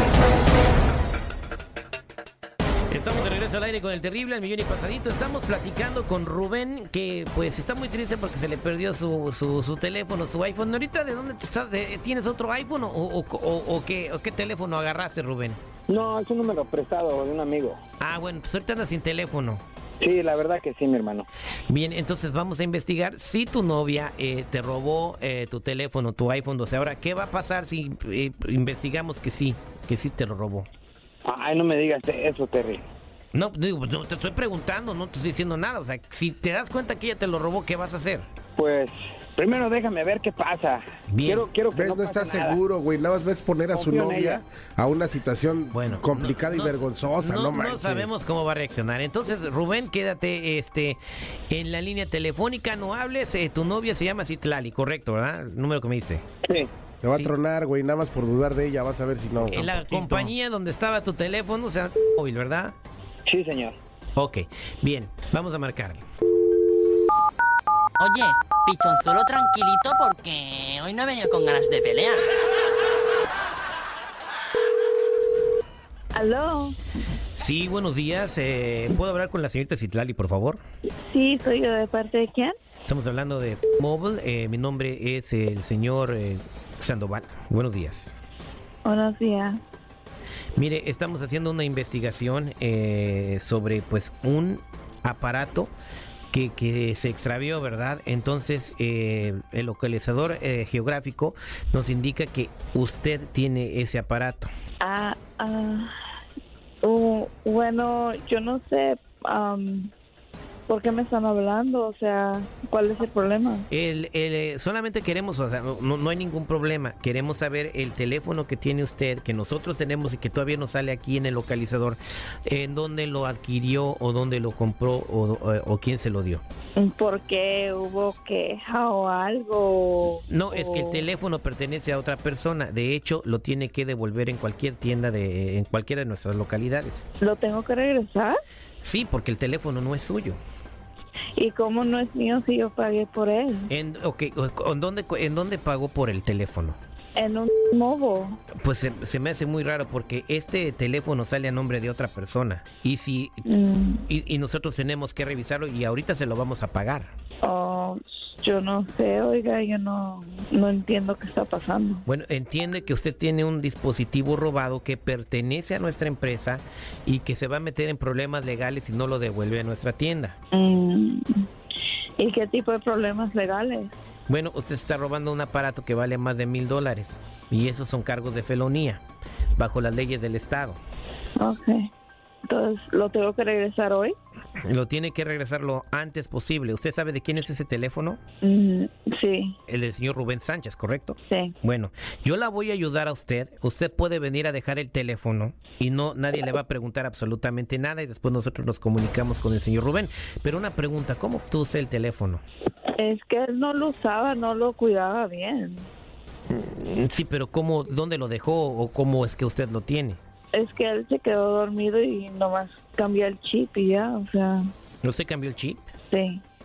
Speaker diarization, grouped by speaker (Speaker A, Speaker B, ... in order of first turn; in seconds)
Speaker A: 2.9-15.6, 18.0-19.6, 21.7-30.7, 33.3-38.3, 41.1-41.5, 45.7-51.0, 51.5-56.2, 57.0-57.3, 59.4-62.7, 64.2-66.0, 77.3-80.6, 82.8-88.2, 90.5-95.7, 96.3-104.5, 113.7-126.4, 130.3-137.1, 138.8-140.4, 143.7-146.8, 148.6-153.4, 154.1-157.1, 162.1-170.3, 174.3-179.0, 179.6-180.8, 184.6-188.2, 189.7-202.4, 206.5-210.2, 215.0-215.9
Speaker B: 15.9-17.8, 20.0-21.3, 31.2-32.9, 38.5-42.6, 43.7-44.4, 56.4-56.7, 63.2-63.8
Speaker C: 41.7-48.1, 57.0-60.1
Speaker D: 68.0-72.3
Speaker E: 76.1-76.8, 81.1-82.5, 88.8-89.6, 104.8-105.9, 106.8-109.9, 110.7-113.7, 126.8-131.0, 137.2-138.4, 141.3-143.7, 147.1-148.4, 153.4-154.1, 157.4-162.0, 170.5-171.4, 172.2-173.9, 181.4-181.9, 182.4-184.2, 188.4-189.6, 191.3-191.5, 203.0-205.9, 210.5-214.7, 216.1-216.4